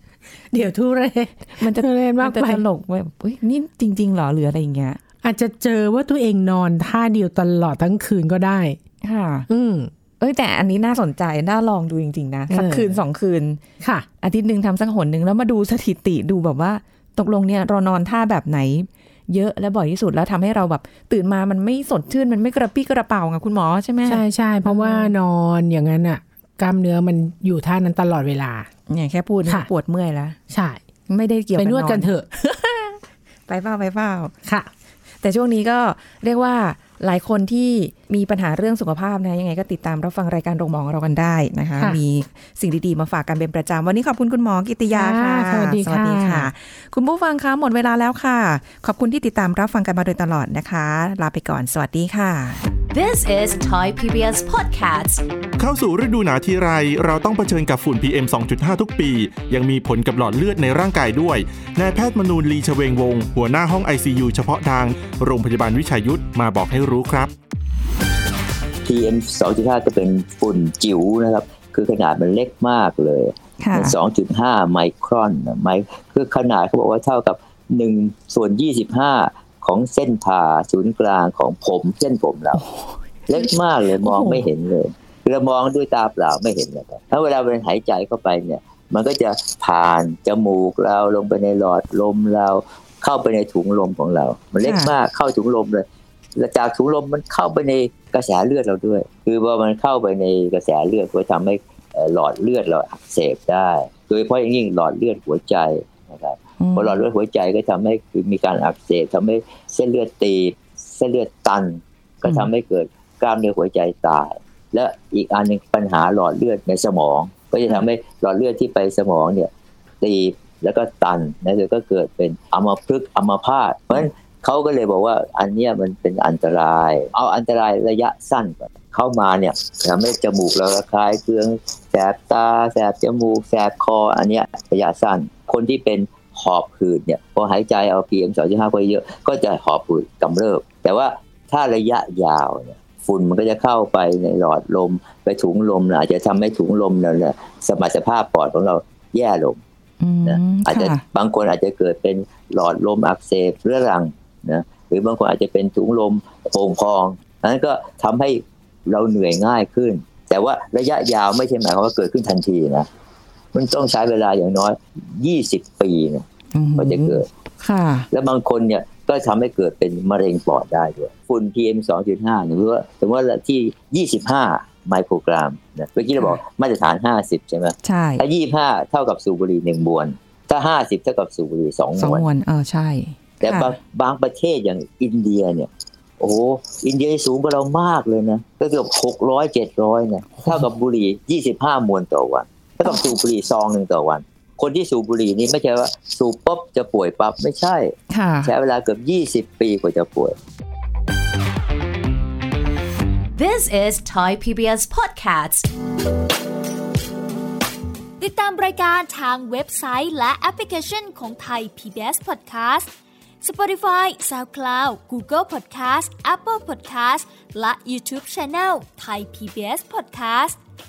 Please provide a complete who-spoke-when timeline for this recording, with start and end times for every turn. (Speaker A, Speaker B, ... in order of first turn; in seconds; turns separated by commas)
Speaker A: 0.5-2.6, Speaker B: 1.6-5.0, Speaker A: 5.2-8.8, Speaker B: 9.0-9.5, Speaker A: 9.5-9.9, Speaker B: 10.2-13.6, Speaker A: 12.5-13.0, Speaker A: 13.8-14.1, Speaker B: 14.2-25.1, Speaker A: 24.1-28.7, Speaker B: 28.9-30.4, Speaker A: 30.5-30.8, Speaker B: 31.1-34.3, Speaker A: 31.6-32.3, Speaker B: 35.2-52.6, Speaker A: 44.9-46.5, Speaker C: 52.9-55.2, Speaker D: 55.6-67.3, Speaker E: 68.8-82.6, Speaker B: 73.6-74.0, Speaker B: 82.5-83.5, Speaker E: 83.3-149.6, Speaker B: 84.0-84.5, Speaker B: 94.6-94.9, Speaker B: 106.6-107.0, Speaker B: 150.0-151.0, Speaker E: 150.2-162.9, Speaker E: 163.5-167.3, Speaker B: 166.5-168.1, Speaker E: 168.1-182.2, Speaker B: 177.8-178.2, Speaker B: 182.0-183.8, Speaker E: 183.4-200.4, Speaker B: 190.4-190.7, Speaker B: 198.1-198.5, Speaker C: 203.4-205.7, Speaker F: 208.2-212.9, Speaker F: 213.4-220.6